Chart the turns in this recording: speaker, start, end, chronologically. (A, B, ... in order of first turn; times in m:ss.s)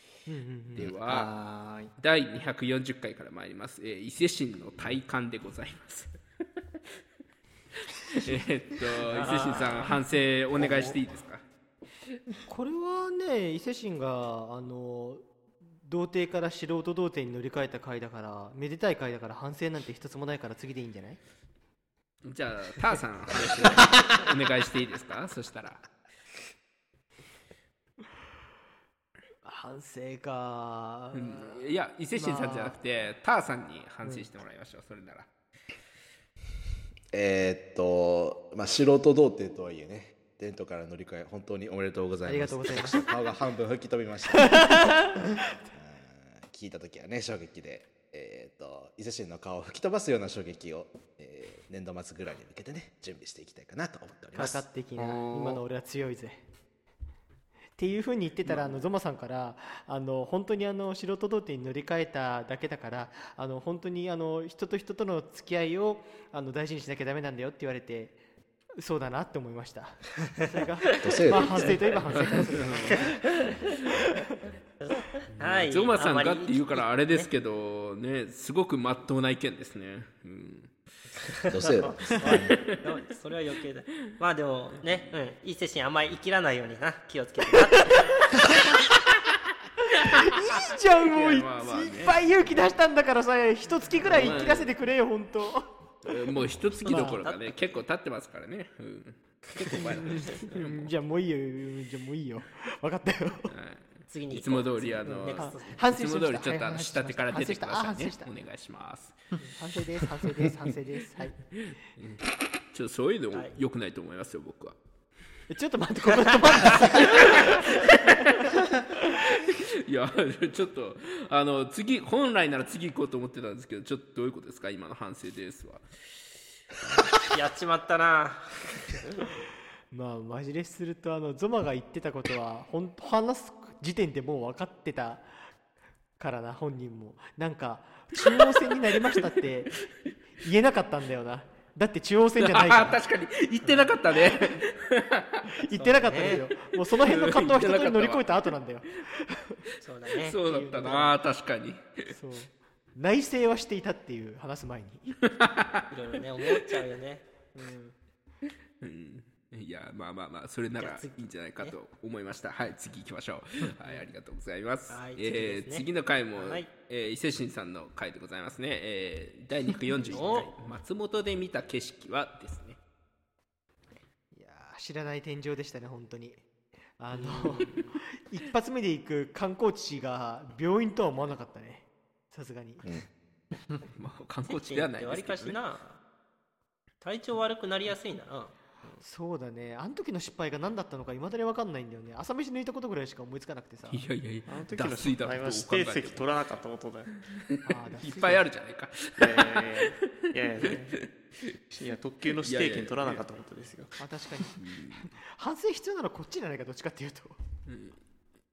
0:00.2-0:00.9 A
0:00.8-0:01.3 B
0:01.0-0:01.9 C
0:02.0-0:06.2 B
0:08.1-0:11.4 B
0:09.1-0:09.9 D
0:10.6-0:11.0 C
0:12.5-0:15.3 A
0:15.8-0:21.2 A
0:22.2-0:25.8 B
0:29.4-0:31.6 A
0:31.1-0:35.3 B
0:32.2-0:32.8 A
0:37.1-0:44.7 E
0:42.2-0:43.0 A
0:44.6-0:44.9 A
0:45.7-0:54.6 E
0:54.3-0:56.4 A
0:55.0-0:55.6 B
0:57.8-1:08.2 A
1:08.8-1:13.3 A
1:11.0-1:12.0 E
1:12.1-1:13.0 B
1:14.8-1:17.3 D
1:15.4-1:20.7 B
1:21.5-1:22.5 E
1:21.8-1:28.4 D
1:29.9-1:35.7 A
1:31.0-1:32.2 B
1:34.0-1:34.7 B
1:36.0-1:40.9 B
1:36.8-1:37.2 A
1:36.8-1:37.6 D
1:40.2-1:43.5 A
1:43.5-1:49.4 B
1:44.1-1:45.8 D
1:45.2-1:48.3 A
1:49.6-1:51.4 A
1:51.7-1:54.8 B
1:55.5-1:57.8 A
1:57.0-1:58.2 B
1:59.1-2:05.8 B
2:07.2-2:08.5 D
2:09.9-2:15.3 A
2:16.2-2:19.8 A
2:20.4-2:23.0 A
2:22.4-2:25.4 B
2:23.6-2:23.9 A
2:25.4-2:29.6 A
2:25.7-2:26.4 D
2:26.9-2:28.4 B
2:29.8-2:30.4 D
2:30.2-2:32.1 B
2:30.3-2:31.2 A
2:32.1-2:35.2 A
2:35.3-2:35.8 B
2:35.9-2:37.2 D
2:37.5-2:37.9 A
2:38.8-2:52.8 B
2:40.8-2:41.8 D
2:44.9-2:46.7 D
2:50.1-2:50.5 D
2:54.3-2:56.4 A
2:57.0-3:02.8 A
2:57.1-2:57.9 D
3:04.0-3:05.6 B
3:04.5-3:06.0 D
3:07.0-3:09.0 D
3:09.0-3:14.0 A
3:13.9-3:16.3 B
3:14.5-3:17.1 C
3:17.2-3:21.5 B
3:17.6-3:18.4 A
3:19.2-3:21.0 C
3:21.7-3:24.0 C
3:22.3-3:23.2 B
3:24.0-3:27.3 A
3:24.6-3:25.0 B
3:27.7-3:28.0 B